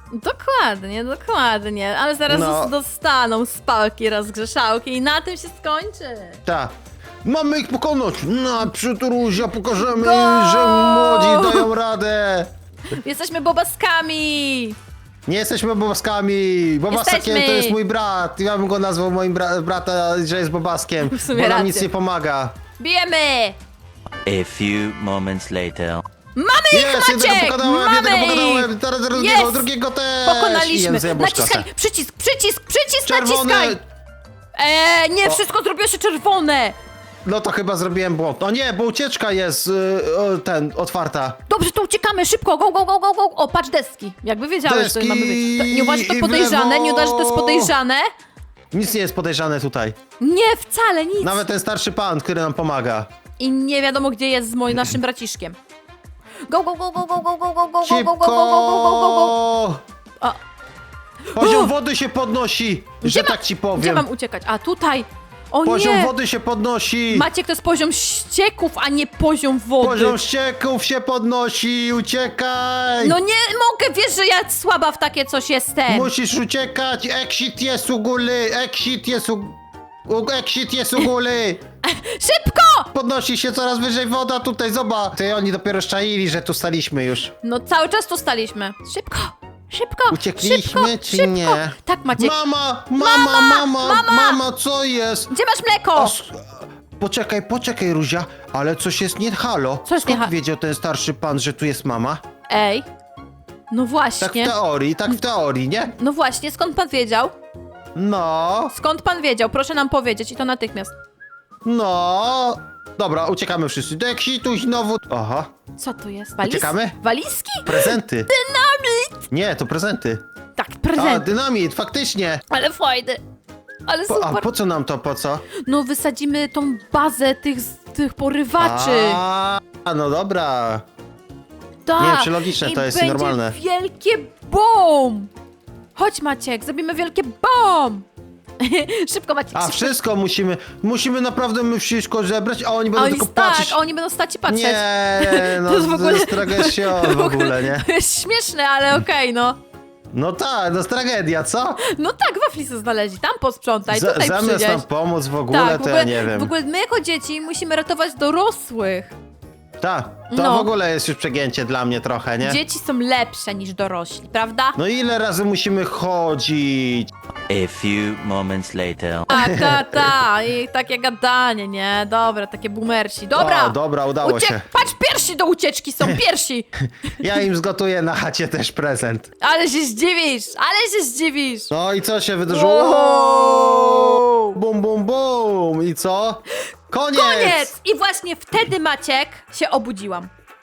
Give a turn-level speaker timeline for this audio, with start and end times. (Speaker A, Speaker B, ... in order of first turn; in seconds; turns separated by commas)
Speaker A: 0.1-6.4, Speaker B: 2.3-2.7, Speaker B: 6.5-12.5, Speaker A: 9.9-11.7, Speaker A: 12.9-14.8, Speaker B: 15.3-22.6, Speaker A: 16.9-17.8, Speaker A: 21.0-21.9, Speaker A: 22.8-23.6, Speaker C: 24.3-26.0, Speaker A: 26.4-29.7, Speaker B: 26.7-31.7, Speaker A: 30.2-33.8, Speaker B: 33.1-33.8, Speaker A: 34.6-36.8, Speaker B: 37.2-41.4, Speaker A: 41.5-48.1, Speaker B: 44.6-47.7, Speaker B: 48.7-50.0, Speaker A: 50.2-51.4, Speaker B: 51.2-53.1, Speaker A: 53.4-55.6, Speaker A: 56.5-59.4, Speaker B: 57.8-59.8, Speaker A: 61.3-61.7, Speaker B: 61.4-64.1, Speaker A: 63.0-66.1, Speaker B: 65.7-67.3, Speaker A: 67.1-70.2, Speaker B: 69.8-73.2, Speaker A: 73.0-76.1, Speaker B: 75.9-81.6, Speaker A: 81.8-82.9, Speaker B: 82.9-87.3, Speaker A: 87.4-92.3, Speaker B: 90.1-95.3, Speaker A: 93.0-94.4, Speaker A: 95.3-96.1, Speaker B: 96.0-102.2, Speaker A: 99.9-100.3, Speaker A: 102.5-102.9, Speaker A: 103.7-104.5, Speaker B: 104.2-105.9, Speaker A: 106.0-107.3, Speaker B: 108.0-108.7, Speaker A: 108.7-110.9, Speaker B: 111.6-115.5, Speaker A: 115.8-119.2, Speaker B: 116.4-117.0, Speaker B: 117.6-118.3, Speaker B: 119.3-120.2, Speaker A: 120.6-121.3, Speaker B: 121.0-122.4, Speaker A: 122.5-123.2, Speaker A: 123.9-124.5, Speaker B: 124.1-125.5, Speaker A: 125.5-129.2, Speaker B: 128.6-130.9, Speaker A: 131.9-135.3, Speaker B: 132.0-133.6, Speaker A: 136.0-138.1, Speaker A: 138.6-139.9, Speaker B: 139.5-143.8, Speaker A: 142.9-149.6, Speaker B: 144.5-147.9, Speaker B: 150.1-151.8, Speaker A: 151.8-154.8, Speaker B: 153.9-156.5, Speaker A: 155.5-159.1, Speaker B: 159.8-162.6, Speaker A: 160.3-160.7, Speaker A: 162.4-164.8, Speaker B: 164.8-167.1, Speaker C: 167.5-169.3, Speaker A: 169.3-176.7, Speaker B: 169.3-170.1, Speaker B: 173.3-174.7, Speaker B: 177.1-179.3, Speaker A: 179.4-181.7, Speaker B: 181.7-187.7, Speaker A: 182.5-184.6, Speaker A: 187.1-190.3